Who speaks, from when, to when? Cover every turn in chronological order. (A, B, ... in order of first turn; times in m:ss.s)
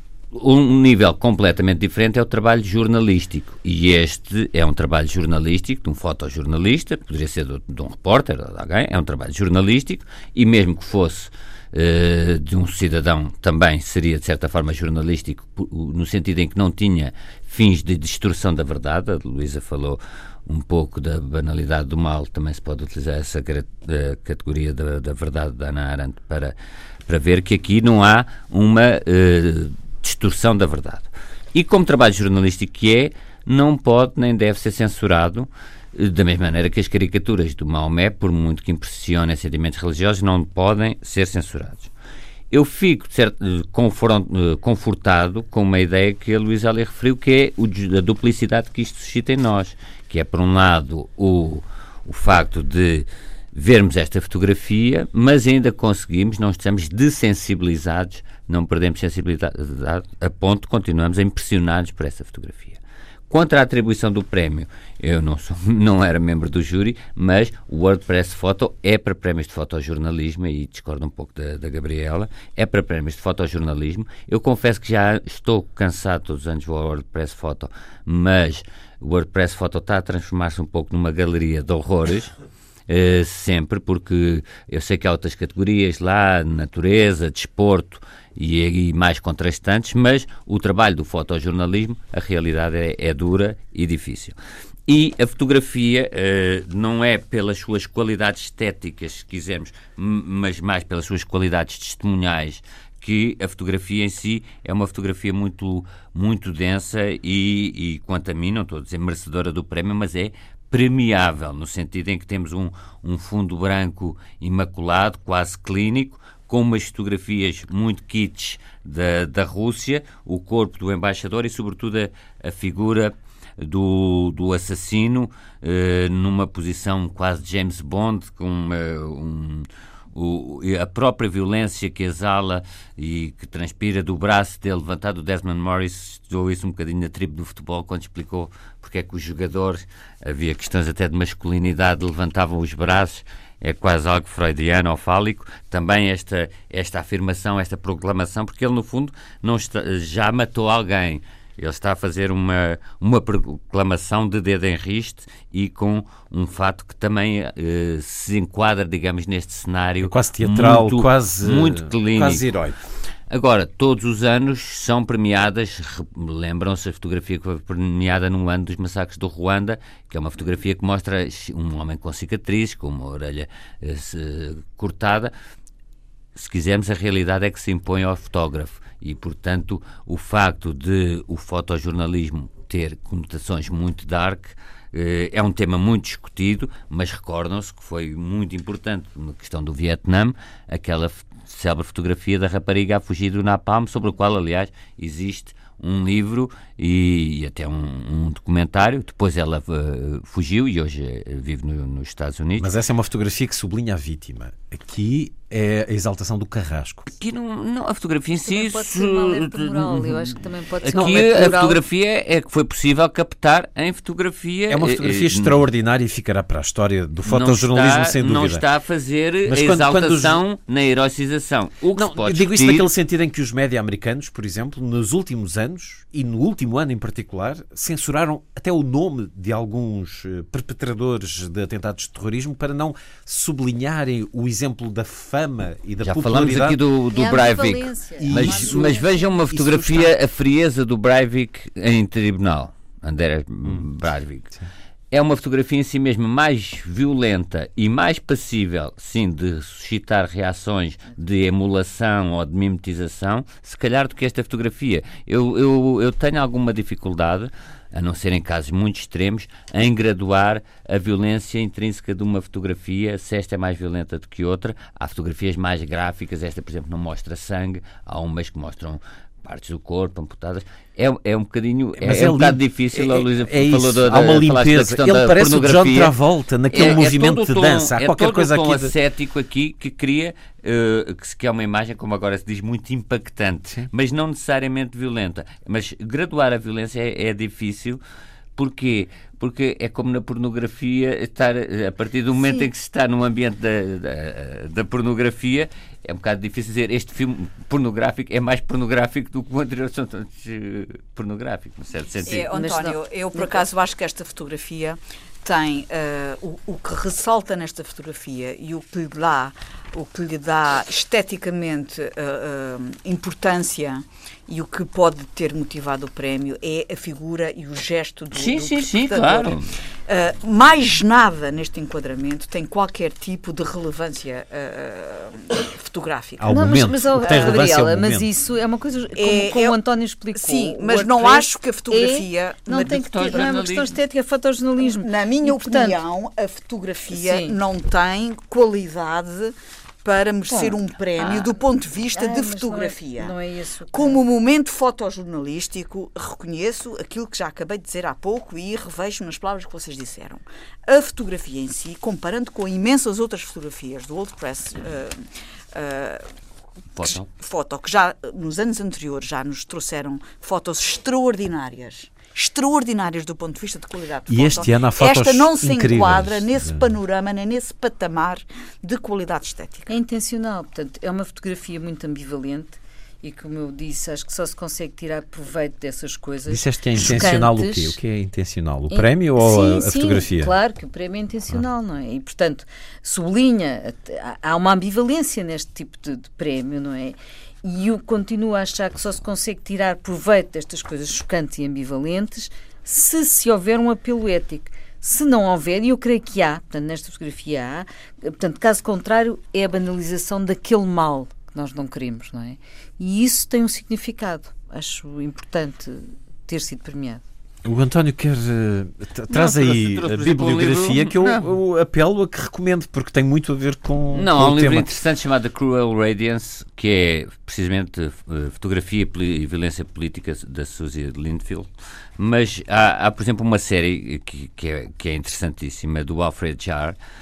0:00.3-0:26.5 A
0:27.1-0:41.9 A
0:42.5-1:02.8 A
1:03.3-1:22.3 A
1:22.9-2:42.4 A
2:40.0-2:42.8 B
2:43.3-2:55.3 A
2:56.4-3:22.7 A
3:22.6-3:27.1 B
3:27.1-3:35.6 A
3:28.4-3:31.8 C
3:30.9-3:31.6 B
3:34.7-3:38.6 B
3:37.2-3:42.9 A
3:39.4-3:40.4 B
3:42.0-3:56.8 B
3:56.0-4:04.5 A
3:57.1-3:59.2 C
3:58.2-4:00.2 B
4:05.1-4:36.1 A
4:32.0-4:38.9 B
4:36.7-4:48.0 A
4:48.6-5:02.5 A
4:52.4-4:52.6 C
5:02.2-5:26.5 D
5:02.3-5:03.6 C
5:18.3-5:19.8 A
5:26.4-5:28.3 B
5:26.5-5:36.0 C
5:29.2-5:29.8 D
5:30.3-5:33.6 D
5:32.7-5:34.0 A
5:34.8-5:43.3 D
5:37.1-5:37.6 C
5:40.5-5:41.6 C
5:42.1-5:44.2 C
5:43.9-5:56.2 D
5:56.9-5:57.3 A
5:57.0-6:09.9 D
6:04.3-6:06.9 B
6:09.9-6:18.0 C
6:16.5-6:20.5 B
6:18.9-6:47.2 C
6:47.6-6:55.0 B
6:49.3-6:51.5 A
6:54.1-7:07.0 A